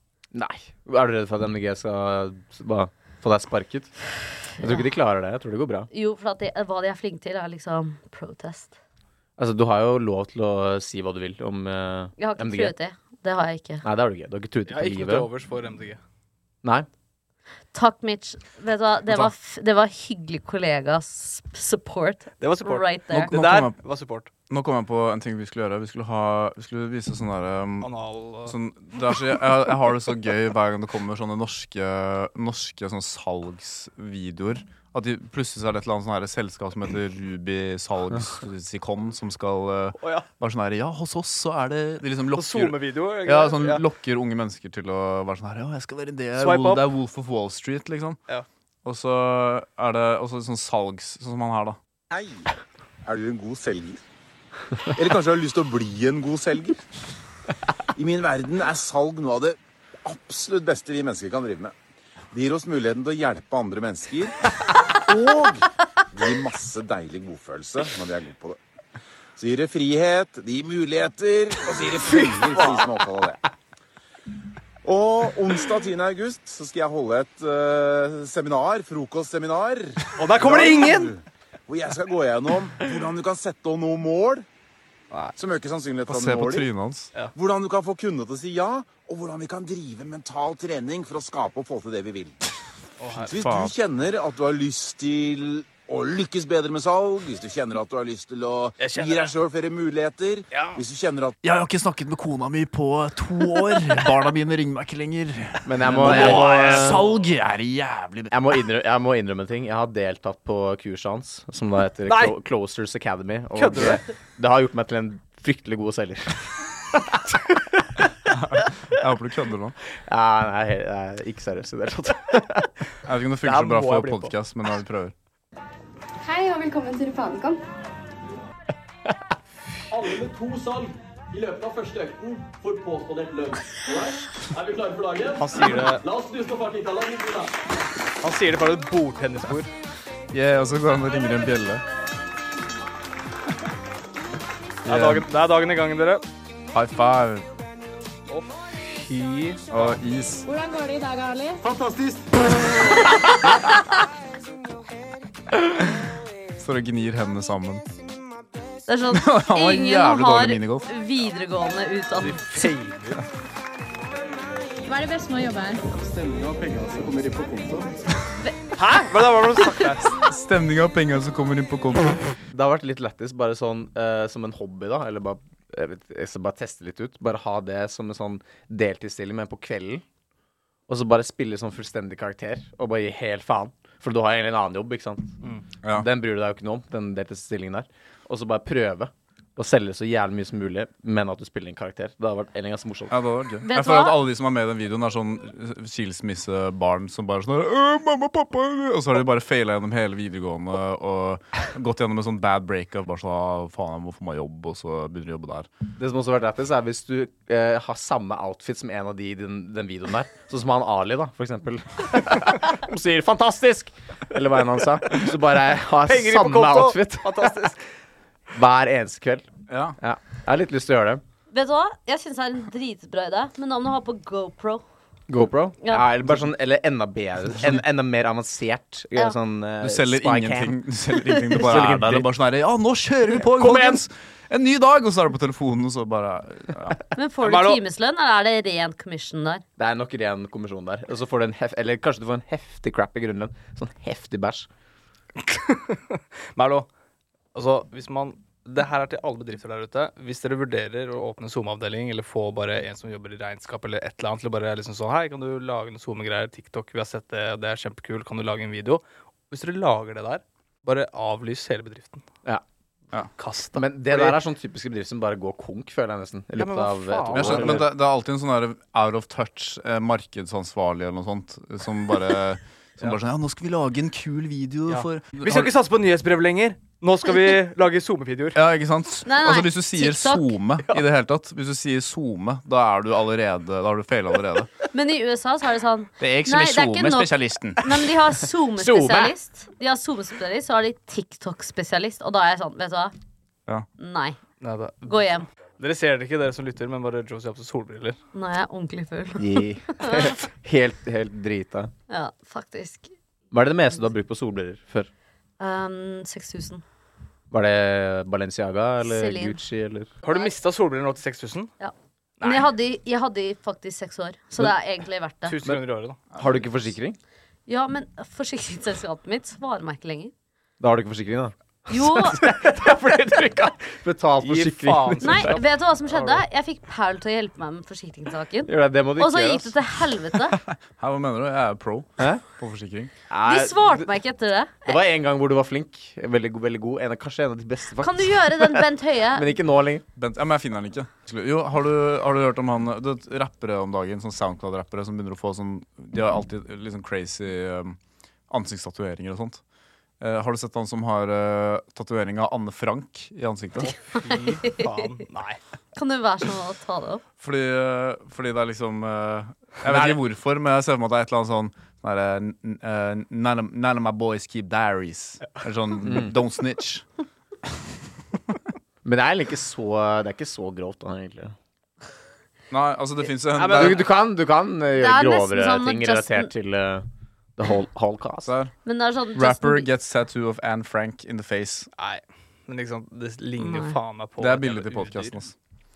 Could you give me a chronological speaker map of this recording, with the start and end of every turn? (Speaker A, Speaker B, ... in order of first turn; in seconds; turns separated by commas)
Speaker A: 0.3-3.9, Speaker A: 4.6-5.9, Speaker B: 5.9-8.8, Speaker A: 9.4-12.7, Speaker B: 12.2-13.8, Speaker A: 13.8-15.3, Speaker C: 14.7-16.0, Speaker B: 17.7-23.4, Speaker C: 22.4-24.3, Speaker D: 23.1-23.8, Speaker D: 24.5-27.9, Speaker C: 27.8-28.6, Speaker D: 28.4-48.2, Speaker C: 40.0-40.3, Speaker C: 42.3-43.8, Speaker C: 46.4-46.8, Speaker D: 48.8-51.8, Speaker E: 52.1-52.5, Speaker E: 53.0-54.0, Speaker E: 54.9-56.8, Speaker E: 58.0-61.7, Speaker E: 62.3-64.3, Speaker E: 64.9-68.6, Speaker E: 69.4-73.4, Speaker E: 74.8-84.5, Speaker C: 80.2-81.1, Speaker E: 85.3-86.7, Speaker D: 86.1-87.1, Speaker E: 87.3-92.4, Speaker C: 93.0-93.3, Speaker E: 93.1-101.3, Speaker D: 93.4-93.7, Speaker C: 98.8-99.3, Speaker C: 100.5-100.8, Speaker D: 101.4-108.5, Speaker A: 105.6-107.0, Speaker C: 105.8-107.0, Speaker A: 108.3-118.1, Speaker C: 112.0-112.3, Speaker C: 113.5-114.0, Speaker D: 118.3-119.8, Speaker A: 120.1-122.7, Speaker D: 123.0-125.1, Speaker C: 123.4-124.3, Speaker F: 126.2-127.6, Speaker G: 129.9-137.5, Speaker C: 135.4-136.0, Speaker C: 138.2-139.7, Speaker D: 140.3-141.8, Speaker D: 144.8-145.3, Speaker C: 144.8-146.2, Speaker D: 146.7-147.5, Speaker C: 148.3-149.9, Speaker D: 149.7-150.4, Speaker F: 150.4-151.6, Speaker E: 151.8-152.2, Speaker D: 156.6-157.8, Speaker B: 158.9-162.7, Speaker D: 159.1-160.8, Speaker C: 162.2-163.2, Speaker F: 164.8-165.8, Speaker E: 165.9-168.0, Speaker C: 168.8-170.1, Speaker D: 170.2-172.2, Speaker A: 172.5-180.0, Speaker A: 180.9-185.3, Speaker D: 185.8-186.1, Speaker A: 185.9-193.2, Speaker D: 193.1-205.7, Speaker B: 193.6-194.2, Speaker A: 206.0-217.7, Speaker C: 216.0-217.8, Speaker A: 218.5-219.4, Speaker D: 219.7-220.0, Speaker A: 220.0-221.2, Speaker B: 221.5-224.8, Speaker A: 225.3-230.8, Speaker B: 225.8-226.1, Speaker D: 229.8-237.0, Speaker A: 231.5-232.2, Speaker A: 233.4-234.0, Speaker B: 237.1-239.6, Speaker C: 237.4-237.8, Speaker A: 239.8-244.7, Speaker C: 245.4-246.9, Speaker C: 247.5-262.2, Speaker C: 263.4-264.4, Speaker A: 263.8-267.9, Speaker C: 266.6-267.8, Speaker D: 267.3-275.7, Speaker C: 274.9-278.6, Speaker D: 278.5-284.7, Speaker B: 279.2-280.5, Speaker B: 284.9-293.1, Speaker D: 286.2-288.0, Speaker A: 288.8-289.3, Speaker B: 294.0-294.4, Speaker C: 294.6-295.3, Speaker B: 295.0-295.4, Speaker C: 295.8-298.2, Speaker B: 298.3-300.4, Speaker A: 299.4-301.9, Speaker B: 302.1-303.1, Speaker A: 303.5-305.1, Speaker B: 305.6-306.8, Speaker A: 307.5-310.1, Speaker B: 309.0-309.6, Speaker C: 310.2-311.7, Speaker B: 310.3-310.5, Speaker B: 311.8-315.6, Speaker C: 312.4-312.7, Speaker C: 315.4-316.2, Speaker A: 316.3-317.2, Speaker B: 317.7-320.3, Speaker A: 320.8-325.6, Speaker B: 321.9-322.4, Speaker C: 324.4-326.4, Speaker B: 325.2-330.6, Speaker A: 328.6-329.7, Speaker D: 330.7-333.1, Speaker A: 333.3-334.1, Speaker B: 333.4-335.0, Speaker A: 334.9-340.0, Speaker B: 338.0-339.5, Speaker D: 340.1-348.0, Speaker D: 348.5-349.6, Speaker D: 350.2-353.9, Speaker C: 353.8-355.6, Speaker B: 354.2-354.9, Speaker B: 355.9-357.2, Speaker D: 357.4-367.1, Speaker A: 366.0-366.3, Speaker A: 369.0-371.5, Speaker D: 372.7-374.1, Speaker C: 373.5-374.1, Speaker A: 373.7-377.1, Speaker B: 374.9-376.5, Speaker A: 377.6-378.5, Speaker D: 378.4-378.7, Speaker B: 378.8-379.9, Speaker D: 379.3-381.9, Speaker C: 382.0-385.3, Speaker B: 383.6-384.0, Speaker D: 384.4-385.5